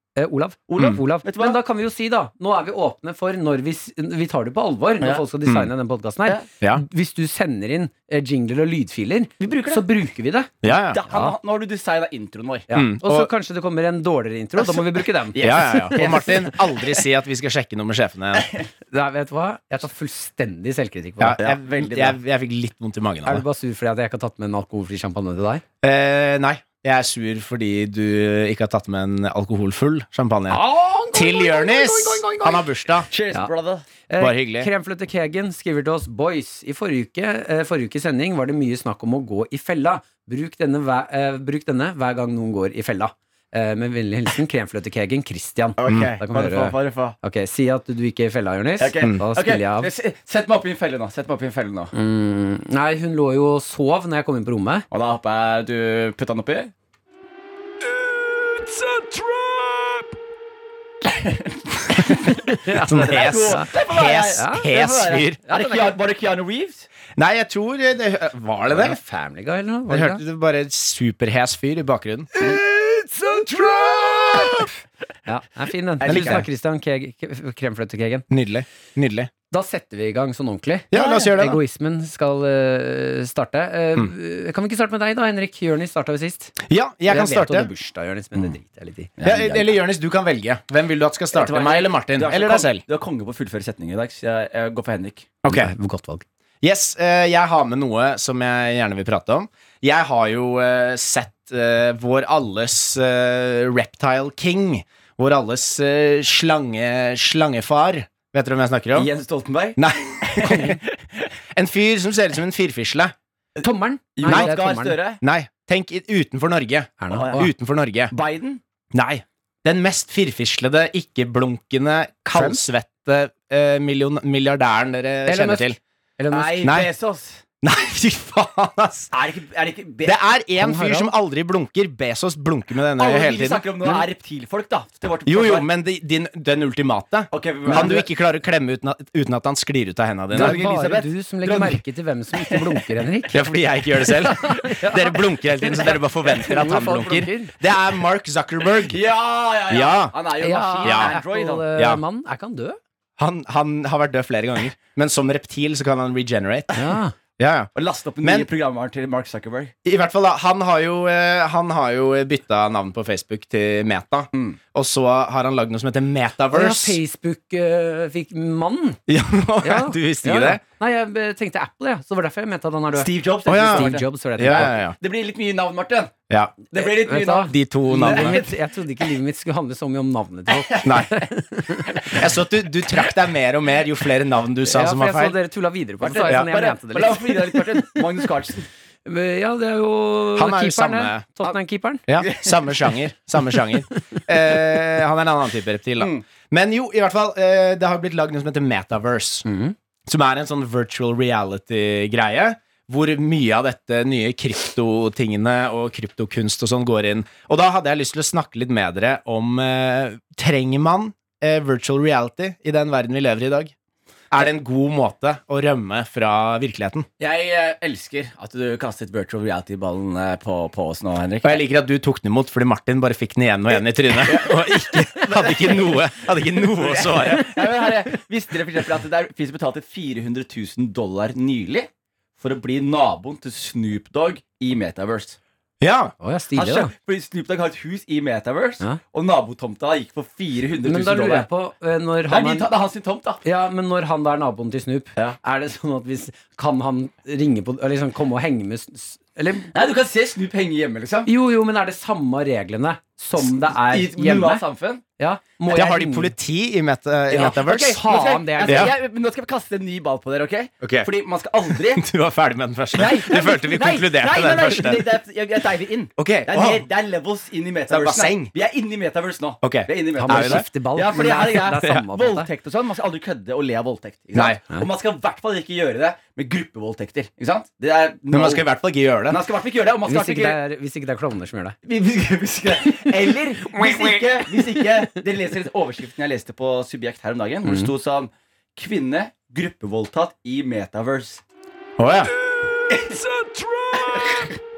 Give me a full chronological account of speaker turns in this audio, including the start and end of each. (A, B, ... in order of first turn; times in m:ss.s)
0:00.2-0:10.5 A
0:00.7-0:01.6 B
0:09.4-0:09.8 B
0:10.6-0:11.0 C
0:10.9-0:12.7 B
0:11.1-0:11.4 A
0:12.7-0:16.6 A
0:12.7-0:13.3 C
0:14.6-0:16.5 B
0:15.4-0:18.5 C
0:18.9-0:21.4 A
0:21.2-0:23.4 C
0:21.4-0:22.2 B
0:23.2-0:25.6 A
0:25.8-0:33.1 C
0:30.5-0:32.7 A
0:33.1-0:33.9 B
0:34.1-0:49.9 A
0:34.2-0:34.7 C
0:45.8-0:47.2 B
0:45.9-0:46.1 C
0:48.8-0:51.9 B
0:51.9-0:54.9 A
0:54.9-0:56.7 B
0:58.5-0:59.8 A
1:01.0-1:06.9 B
1:02.2-1:03.7 A
1:02.8-1:05.4 C
1:04.3-1:06.0 A
1:07.2-1:09.0 C
1:08.7-1:10.2 A
1:09.9-1:12.3 C
1:12.4-1:14.7 A
1:14.4-1:14.7 B
1:15.3-1:18.3 A
1:16.0-1:16.4 B
1:16.0-1:16.5 C
1:18.3-1:19.3 C
1:19.5-1:26.6 A
1:20.9-1:21.6 C
1:26.6-1:27.7 C
1:27.1-1:29.7 A
1:29.2-1:32.8 C
1:31.3-1:35.3 B
1:35.4-1:35.7 C
1:35.5-1:36.2 A
1:36.6-1:49.1 C
1:49.0-1:50.9 B
1:49.8-1:50.8 C
1:51.5-1:53.1 C
1:53.6-1:55.2 B
1:53.6-1:55.0 A
1:54.3-1:54.5 C
1:55.2-1:58.1 C
1:57.0-1:57.5 A
1:57.1-1:57.5 B
1:58.1-1:58.6 B
1:58.9-2:05.8 C
2:02.3-2:02.6 A
2:05.3-2:06.7 A
2:06.3-2:07.4 B
2:06.6-2:06.9 C
2:07.6-2:09.1 C
2:09.1-2:10.2 B
2:10.0-2:13.7 C
2:10.6-2:11.1 A
2:13.0-2:15.7 B
2:15.2-2:20.6 C
2:17.3-2:18.1 B
2:20.3-2:21.8 B
2:20.3-2:23.5 A
2:22.3-2:22.8 B
2:23.3-2:29.0 C
2:24.2-2:27.5 A
2:28.9-2:31.7 B
2:29.7-2:30.1 C
2:30.4-2:32.8 A
2:30.8-2:31.2 C
2:31.8-2:32.0 C
2:33.2-2:36.8 C
2:36.7-2:37.1 A
2:37.4-2:37.7 C
2:37.8-2:39.7 B
2:38.2-2:38.5 C
2:39.8-2:47.0 C
2:44.3-2:44.6 B
2:46.5-2:49.0 A
2:49.1-2:50.6 C
2:49.6-2:54.8 A
2:53.0-2:56.1 B
2:53.5-2:55.0 C
2:56.3-2:56.6 C
2:56.7-2:58.6 B
2:56.8-3:02.2 A
2:57.5-2:58.4 C
3:00.5-3:01.2 B
3:00.8-3:01.1 C
3:01.9-3:02.2 B
3:02.1-3:05.4 C
3:04.6-3:08.0 A
3:06.0-3:08.7 B
3:09.0-3:12.0 A
3:10.4-3:11.3 C
3:12.1-3:19.5 C
3:12.2-3:12.6 B
3:16.0-3:16.2 B
3:19.4-3:19.8 A
3:20.1-3:33.7 C
3:34.3-3:37.1 C
3:37.2-3:41.6 B
3:41.4-3:47.6 C
3:44.2-3:55.4 B
3:55.8-3:56.2 C
3:56.2-3:56.9 A
3:56.5-4:01.5 B
4:00.9-4:02.7 A
4:02.3-4:03.4 B
4:03.4-4:09.7 A
4:09.7-4:11.3 B
4:11.3-4:14.6 A
4:13.4-4:15.0 B
4:15.2-4:16.3 A
4:15.7-4:18.0 C
4:17.3-4:18.9 A
4:17.3-4:22.1 B
4:18.6-4:18.9 C
4:20.8-4:21.1 C
4:21.8-4:25.1 C
4:22.9-4:38.7 B
4:26.2-4:26.9 C
4:27.9-4:28.5 C
4:29.6-4:30.6 C
4:30.2-4:32.5 A
4:38.3-4:39.4 C
4:39.3-4:40.6 B
4:40.1-4:41.8 A
4:41.8-4:51.4 B
4:43.8-4:44.2 A
4:47.7-4:47.9 A
4:52.0-4:52.3 C
4:52.9-4:53.2 B
4:53.4-4:53.9 A
4:53.9-4:54.5 B